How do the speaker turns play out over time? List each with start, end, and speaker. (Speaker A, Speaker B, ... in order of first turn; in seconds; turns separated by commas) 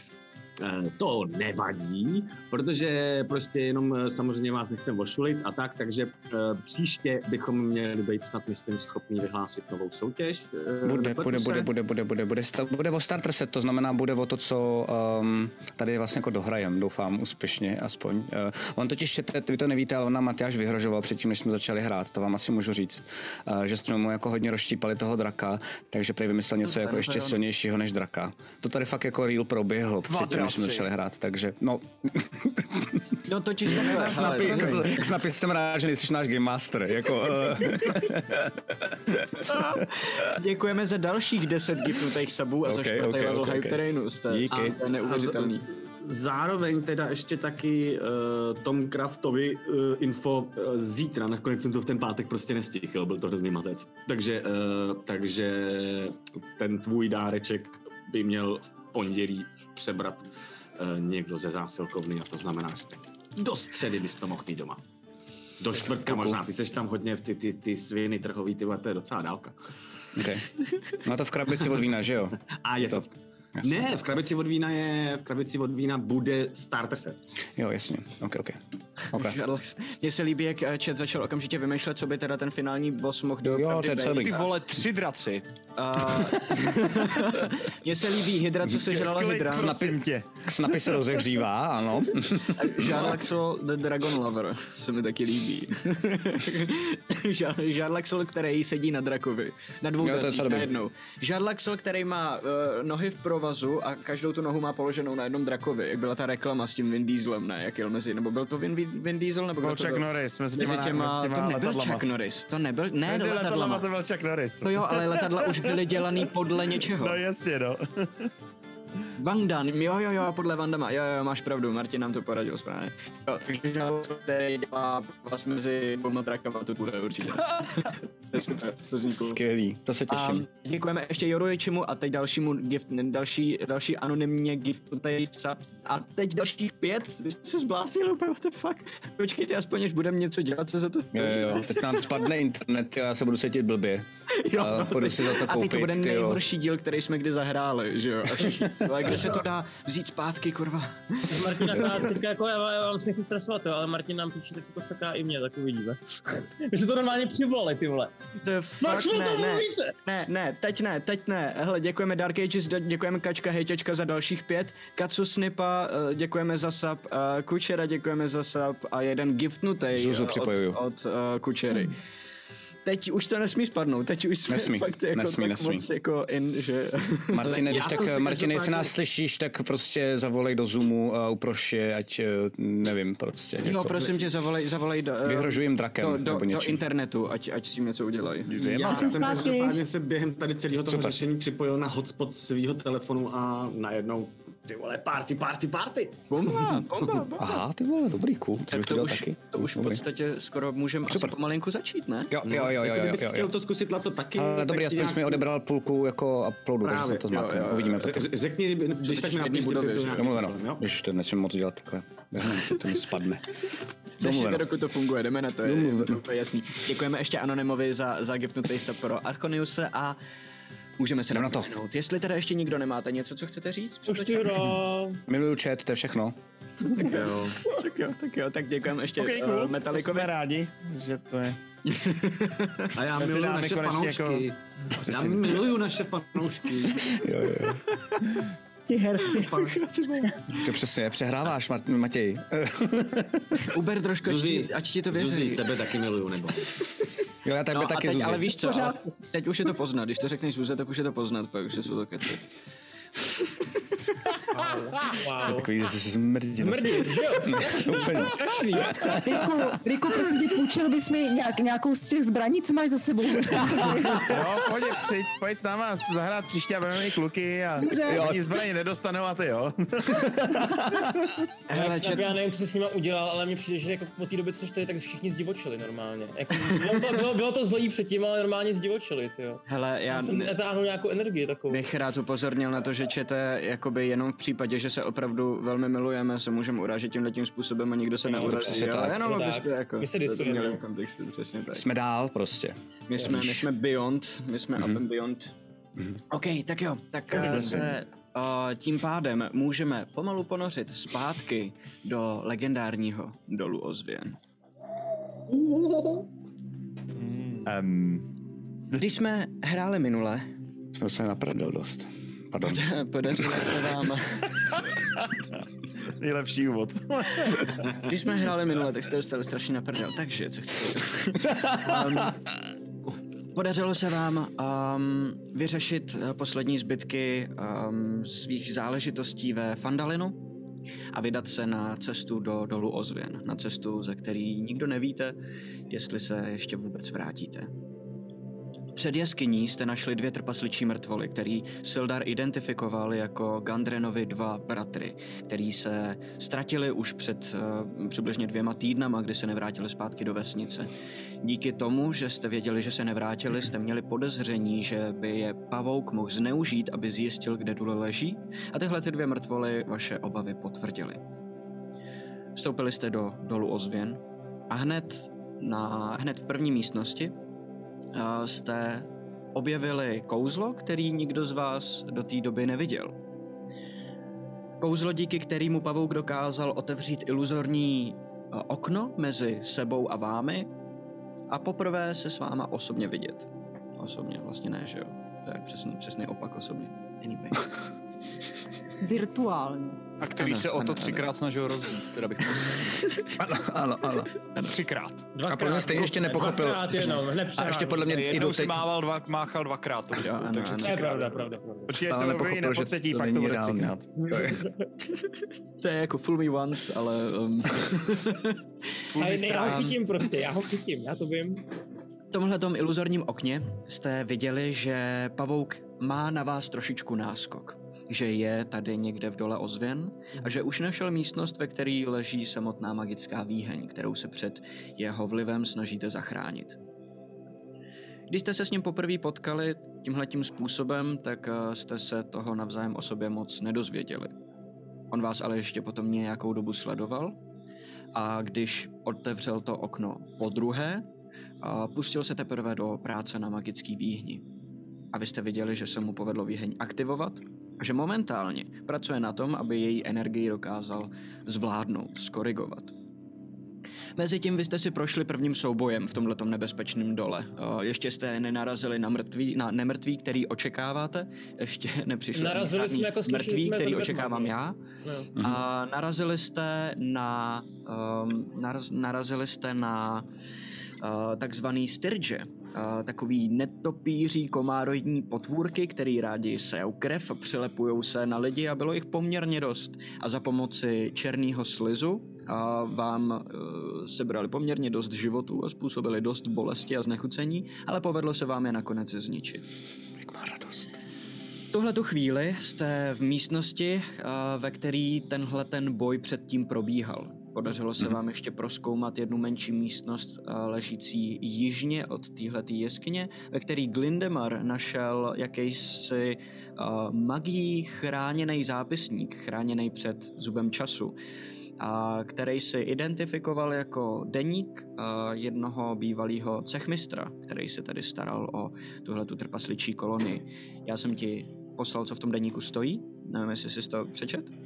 Speaker A: 0.6-11.7, Speaker B: 10.8-33.0, Speaker C: 26.6-27.4, Speaker D: 30.1-30.8, Speaker C: 33.2-35.1, Speaker B: 33.6-39.7, Speaker C: 39.5-45.7, Speaker B: 42.6-44.8, Speaker A: 45.1-60.2, Speaker A: 60.8-64.8, Speaker A: 65.6-69.5, Speaker B: 66.0-66.4, Speaker B: 70.2-74.0, Speaker A: 72.6-77.2, Speaker B: 77.6-78.6, Speaker B: 79.1-79.4, Speaker C: 79.1-84.5, Speaker B: 83.4-84.4, Speaker D: 84.1-85.4, Speaker C: 85.8-89.8, Speaker E: 88.7-91.0, Speaker B: 89.4-93.2, Speaker C: 92.5-113.9, Speaker B: 100.0-100.7, Speaker E: 109.6-112.1, Speaker E: 113.0-118.3, Speaker C: 114.6-117.2, Speaker C: 119.2-129.4, Speaker B: 129.2-130.4, Speaker C: 130.1-142.0, Speaker B: 141.1-146.4, Speaker C: 144.3-152.0, Speaker F: 151.3-158.2, Speaker C: 158.4-171.9, Speaker F: 158.8-159.9, Speaker B: 169.9-170.8, Speaker C: 172.8-177.9, Speaker B: 174.5-175.8, Speaker B: 177.3-184.2, Speaker A: 177.5-178.9, Speaker C: 183.6-188.6, Speaker B: 185.2-186.8, Speaker D: 188.5-189.2, Speaker A: 188.6-196.8, Speaker G: 188.8-189.8, Speaker B: 190.9-191.2, Speaker C: 196.3-197.6, Speaker B: 197.4-200.0, Speaker C: 198.6-202.3, Speaker B: 201.1-201.4, Speaker B: 202.3-203.5, Speaker A: 202.4-205.4, Speaker B: 204.3-208.3, Speaker A: 206.8-210.8, Speaker C: 207.3-208.0, Speaker C: 209.0-210.3, Speaker B: 210.2-213.5, Speaker C: 214.2-220.2, Speaker B: 214.2-214.7, Speaker B: 215.6-216.2, Speaker C: 221.0-224.7, Speaker B: 221.3-221.7, Speaker F: 224.1-225.2, Speaker B: 225.3-226.4, Speaker C: 226.8-230.3, Speaker A: 227.0-227.6, Speaker E: 229.2-231.6, Speaker C: 231.8-232.9, Speaker A: 232.9-237.2, Speaker E: 233.1-234.5, Speaker E: 235.0-235.7, Speaker B: 237.1-237.8, Speaker C: 237.8-238.2, Speaker G: 238.9-240.4, Speaker C: 239.3-240.7, Speaker B: 240.5-243.7, Speaker C: 243.6-245.7, Speaker A: 244.2-246.7, Speaker B: 247.4-248.6, Speaker C: 247.7-252.4, Speaker G: 248.6-249.0, Speaker F: 254.5-255.7, Speaker B: 255.4-259.7, Speaker F: 256.6-258.9, Speaker G: 258.9-264.6, Speaker E: 264.2-270.6, Speaker G: 267.8-268.3, Speaker B: 268.1-268.4, Speaker C: 271.7-272.3, Speaker F: 271.7-281.8, Speaker C: 279.7-280.5, Speaker C: 281.7-291.8, Speaker B: 288.3-289.3, Speaker F: 288.8-290.8, Speaker B: 291.7-293.7, Speaker C: 293.1-295.5, Speaker C: 296.3-304.4, Speaker E: 297.3-297.9, Speaker E: 307.4-308.3, Speaker C: 309.0-310.5, Speaker B: 310.9-313.6, Speaker C: 312.6-314.8, Speaker E: 316.2-317.9, Speaker C: 317.9-322.4, Speaker C: 323.5-330.4, Speaker C: 331.1-335.4, Speaker C: 335.9-337.7, Speaker C: 338.9-350.9, Speaker C: 351.4-361.2, Speaker C: 362.5-367.3, Speaker C: 368.1-373.2, Speaker C: 374.8-380.7, Speaker C: 381.5-387.7, Speaker G: 389.0-390.1, Speaker D: 390.2-393.1, Speaker C: 390.3-391.3, Speaker B: 393.3-394.3, Speaker D: 394.6-395.3, Speaker F: 395.3-398.2, Speaker B: 395.5-398.9, Speaker D: 398.0-401.3, Speaker C: 400.1-401.1, Speaker F: 400.8-401.9, Speaker E: 401.9-404.1, Speaker B: 401.9-404.6, Speaker F: 404.3-404.8, Speaker C: 405.8-408.6, Speaker F: 409.1-411.6, Speaker D: 409.2-409.8, Speaker C: 409.2-410.0, Speaker C: 412.3-426.8, Speaker C: 428.3-434.3, Speaker C: 435.1-437.4, Speaker C: 438.1-441.1, Speaker C: 441.6-444.4, Speaker C: 445.1-452.9, Speaker C: 454.2-464.8, Speaker F: 462.3-465.3, Speaker C: 465.4-470.3, Speaker C: 471.0-489.7, Speaker B: 490.2-490.9, Speaker C: 491.7-511.2, Speaker C: 511.8-524.5